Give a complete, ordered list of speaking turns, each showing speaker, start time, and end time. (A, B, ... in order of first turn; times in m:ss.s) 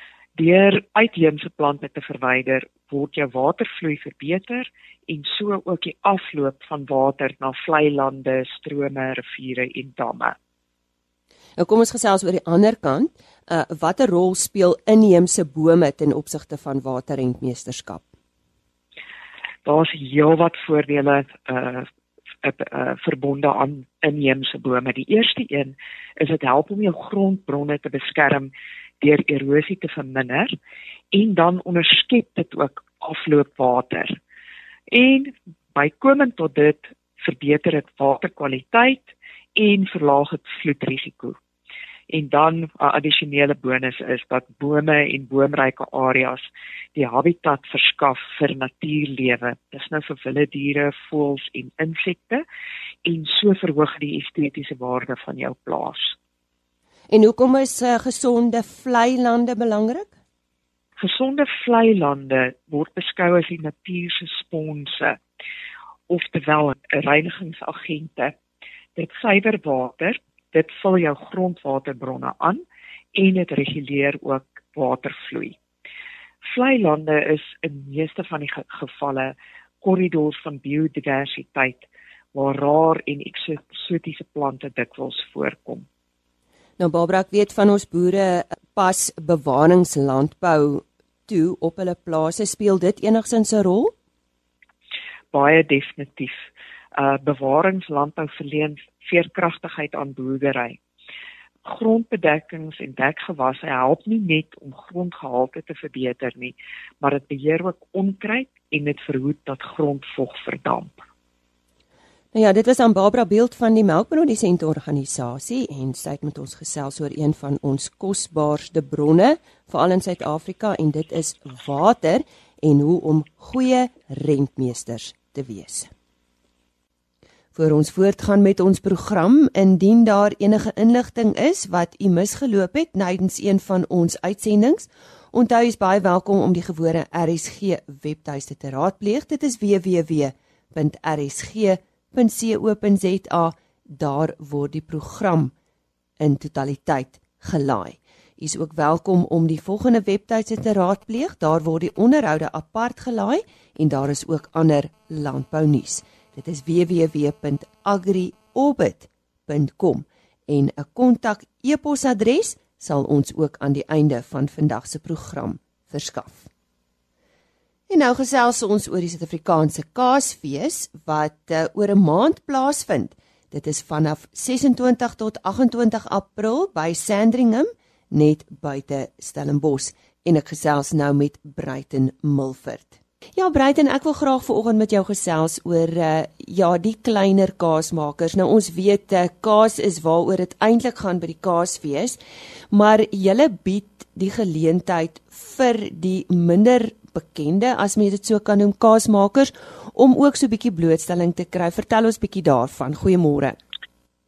0:00.4-0:10.4 A
0:11.6-0:18.1 B
0:19.6-0:21.9 A
0:22.4-0:28.5 A
0:29.0-0:30.5 A
0:31.1-0:34.2 A
0:34.9-0:41.4 A
0:42.1-0:52.4 A
0:53.0-0:56.1 A
0:57.1-1:00.1 B
1:01.0-1:05.2 A
1:06.1-1:08.4 A
1:09.0-1:12.6 A
1:13.1-1:15.6 A
1:16.4-1:25.8 A
1:26.8-1:33.9 B
1:35.3-1:40.8 A
1:41.6-1:51.0 A
1:52.3-2:05.9 B
2:07.5-2:25.5 B
2:26.2-2:46.5 B
2:47.9-3:12.2 B
3:12.7-3:23.6 B